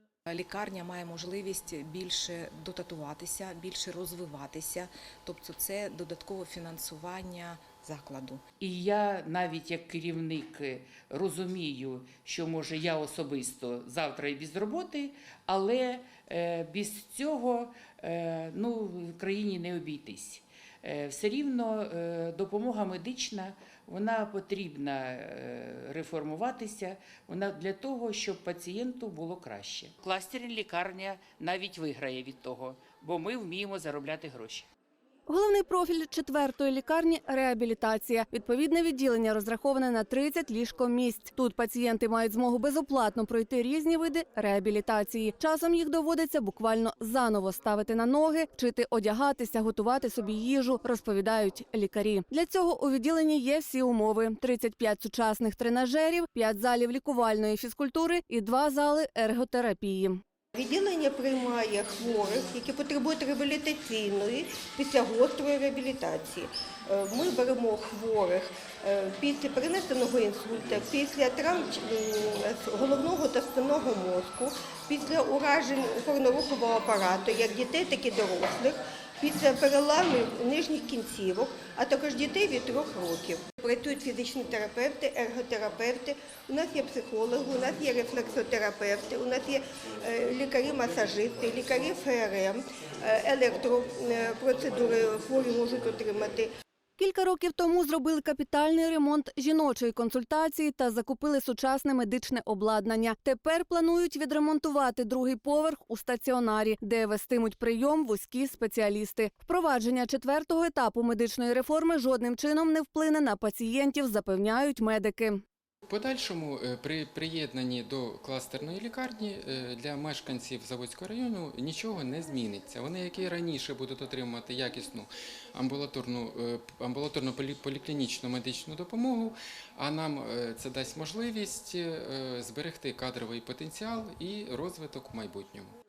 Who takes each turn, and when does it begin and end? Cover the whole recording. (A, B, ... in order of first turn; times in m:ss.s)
0:00.3-0:08.4 A
0:08.6-0:34.7 B
0:35.3-1:00.2 C
1:00.6-1:36.5 D
1:37.0-1:55.4 C
1:55.9-2:15.7 E